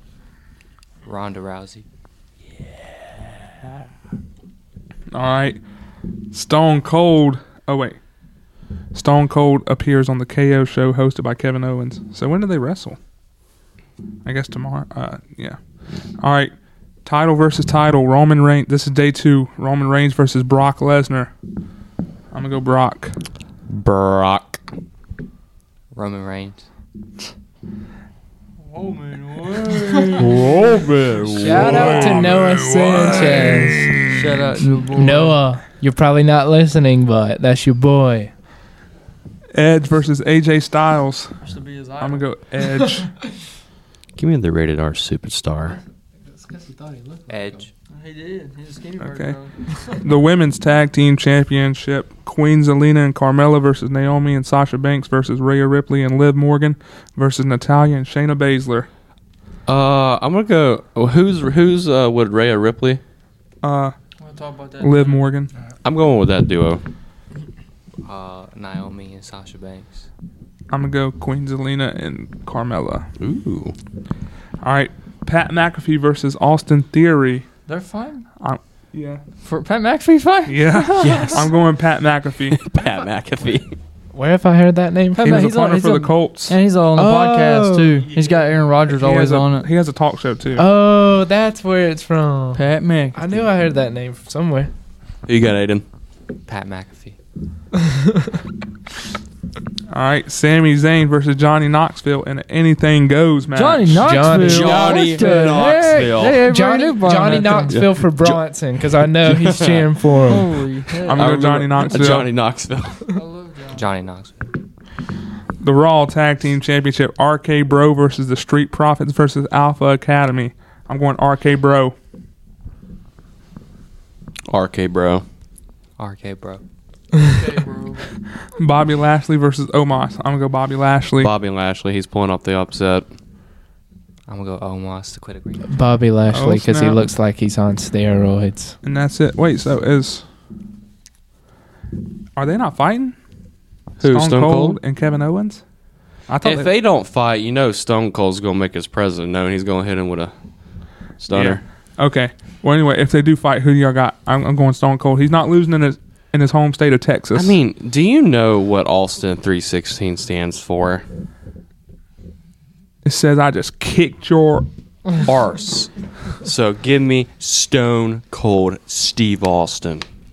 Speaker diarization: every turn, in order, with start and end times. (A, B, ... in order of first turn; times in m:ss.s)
0:01.0-0:01.8 A
0:05.1-0:05.6 B
0:06.3-0:08.0 B
0:08.9-0:13.0 B
0:14.2-0:15.6 B
0:16.1-0:16.5 B
0:17.0-0:21.3 B
0:22.3-0:23.2 B
0:23.7-0:24.6 C
0:25.9-0:26.6 A
0:28.7-0:30.4 D
0:30.1-0:32.2 C
0:31.4-0:34.0 E
0:31.5-0:34.4 B
0:34.1-0:35.4 D
0:34.9-0:38.3 E
0:39.5-0:41.4 B
0:41.4-0:42.3 D
0:42.0-0:43.1 B
0:44.2-0:45.8 C
0:46.3-0:47.6 E
0:47.3-0:47.7 A
0:47.9-0:49.6 D
0:49.0-0:58.9 B
0:59.7-1:03.0 C
1:03.6-1:04.0 B
1:04.2-1:05.2 D
1:04.8-1:05.5 B
1:05.8-1:06.8 C
1:08.0-1:10.1 A
1:10.7-1:13.1 B
1:13.2-1:13.7 C
1:14.6-1:17.5 B
1:17.7-1:18.3 D
1:18.4-1:19.2 B
1:19.4-1:21.4 D
1:20.5-1:22.6 B
1:22.6-1:23.8 C
1:24.1-1:25.5 E
1:25.1-1:29.7 D
1:25.2-1:26.6 B
1:27.1-1:27.7 C
1:28.9-1:30.6 B
1:30.5-1:34.7 E
1:32.5-1:33.2 D
1:35.2-1:35.8 C
1:36.4-1:37.2 A
1:37.9-1:38.3 E
1:39.9-1:44.1 B
1:43.5-1:47.8 D
1:44.0-1:45.4 E
1:44.4-1:46.4 C
1:46.3-1:50.5 E
1:47.7-1:48.4 C
1:49.0-1:50.2 C
1:50.3-1:51.3 D
1:51.0-1:52.3 B
1:51.1-1:53.1 C
1:53.1-1:53.8 D
1:53.7-1:54.5 A
1:55.6-2:01.9 B
2:04.5-2:05.2 C
2:06.0-2:06.6 A
2:07.3-2:08.1 D
2:08.6-2:11.3 B
2:11.2-2:13.0 C
2:14.3-2:15.8 A
2:15.7-2:18.8 E
2:16.3-2:17.0 B
2:18.8-2:20.2 B
2:22.4-2:23.2 B
2:24.0-2:24.8 C
2:24.0-2:25.6 B
2:26.2-2:26.7 B
2:26.4-2:31.6 C
2:31.3-2:37.5 B
2:37.3-2:41.0 C
2:43.0-2:44.7 B
2:45.2-2:50.0 C